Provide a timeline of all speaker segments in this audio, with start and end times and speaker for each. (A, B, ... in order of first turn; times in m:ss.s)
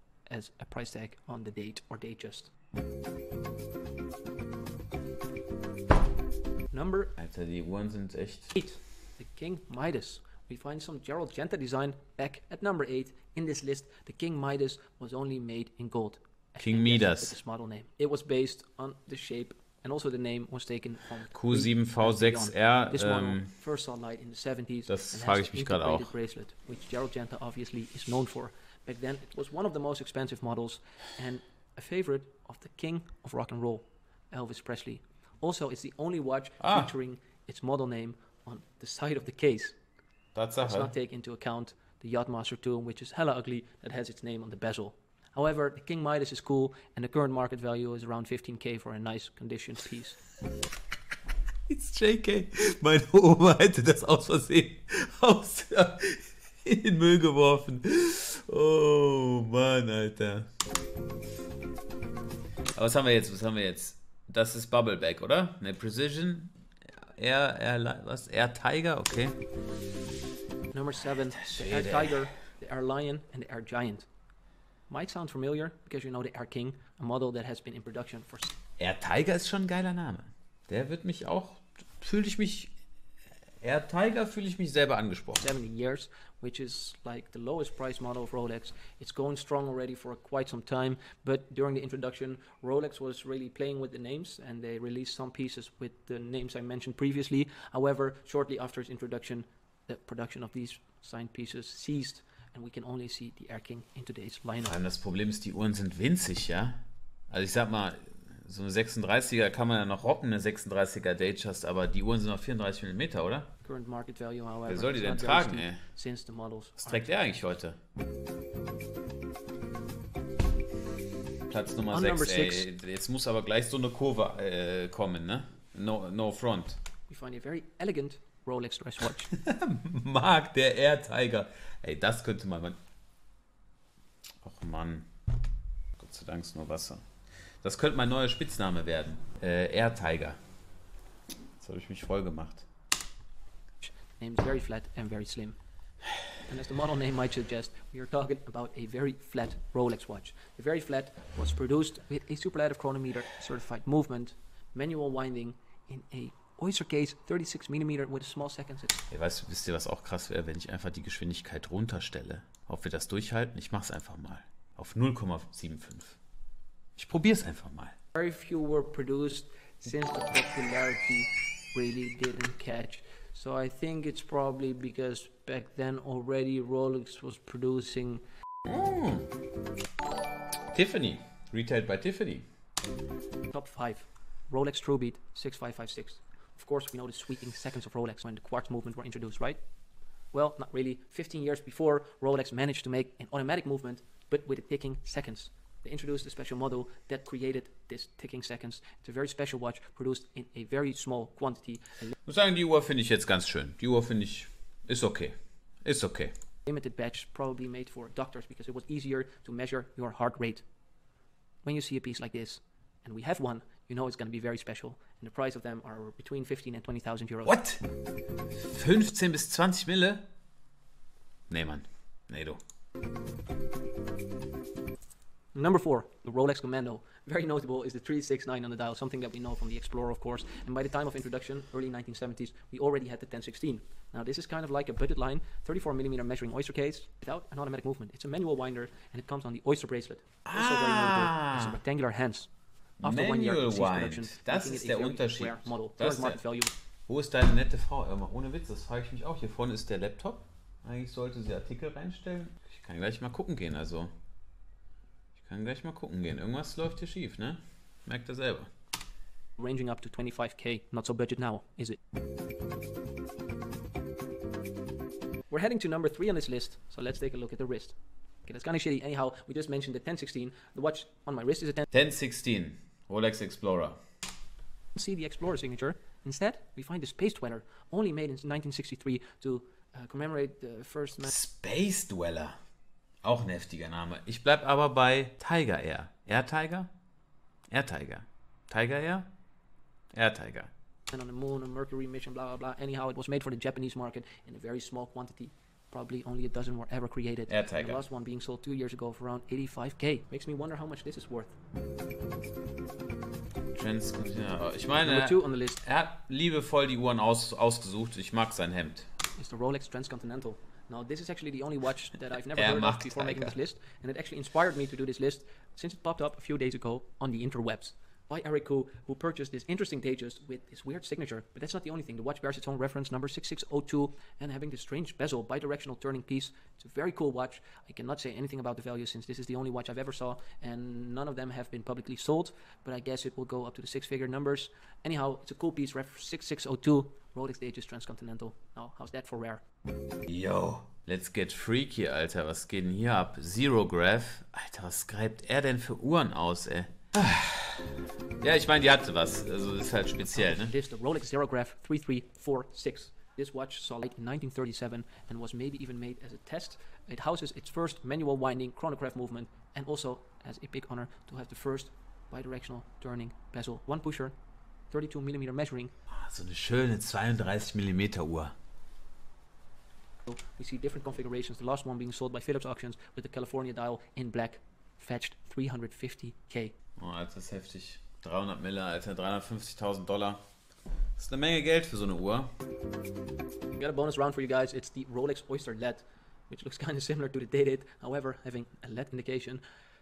0:00.3-0:02.5 A
0:06.7-0:07.2 A
0:07.2-0:08.5 B
0:08.5-0:39.8 A
0:16.6-0:17.4 B
0:21.3-0:23.5 B
0:24.9-0:26.1 B
0:36.6-0:36.9 B
0:40.4-0:40.9 B
0:40.6-0:50.2 A
0:51.7-1:00.5 B
1:02.8-1:09.4 B
1:10.7-1:14.1 A
1:11.4-1:12.2 B
1:14.9-1:18.5 A
1:18.8-1:22.7 B
1:23.6-1:25.4 B
1:25.4-1:44.8 A
1:44.6-1:46.8 B
1:47.3-1:53.5 B
1:53.6-1:57.1 A
1:54.7-1:55.8 B
1:56.8-1:57.8 B
2:01.5-2:06.8 B
2:01.9-2:02.7 A
2:07.1-2:09.3 A
2:09.3-2:12.8 B
2:14.4-2:15.1 B
2:16.0-2:17.1 B
2:17.6-2:20.4 B
2:21.6-2:22.7 B
2:23.8-2:25.6 A
2:26.5-2:39.1 A
2:39.1-2:46.2 B
2:47.0-2:48.0 B
2:48.1-2:58.2 A
2:58.6-2:59.3 B
3:00.7-3:02.5 B
3:03.5-3:09.6 A
3:10.3-3:22.1 A
3:22.3-3:26.3 B
3:26.7-3:30.6 A
3:31.6-3:37.6 A
3:37.5-3:37.8 B
3:38.6-3:40.3 B
3:41.5-3:42.6 B
3:45.5-4:02.5 A
4:00.4-4:01.8 B
4:03.0-4:06.4 B
4:03.0-4:06.7 A
4:07.1-4:14.1 B
4:15.4-4:18.7 B
4:19.6-4:22.0 A
4:25.5-4:31.9 A
4:31.9-4:34.0 B
4:34.9-4:41.3 A
4:41.2-4:42.6 B
4:43.2-4:46.9 B
4:47.7-4:49.3 B
4:50.1-4:50.7 B
4:51.1-5:01.6 A
4:57.5-4:58.0 B
5:03.7-5:09.1 B
5:04.9-5:05.8 A
5:09.3-5:39.6 A
5:12.5-5:13.6 B
5:40.3-5:50.7 B
5:50.3-6:04.4 A
6:04.9-6:05.9 A
6:06.1-6:08.6 B
6:10.3-6:16.7 A
6:17.0-6:20.4 B
6:21.2-6:22.5 B
6:23.8-6:29.6 A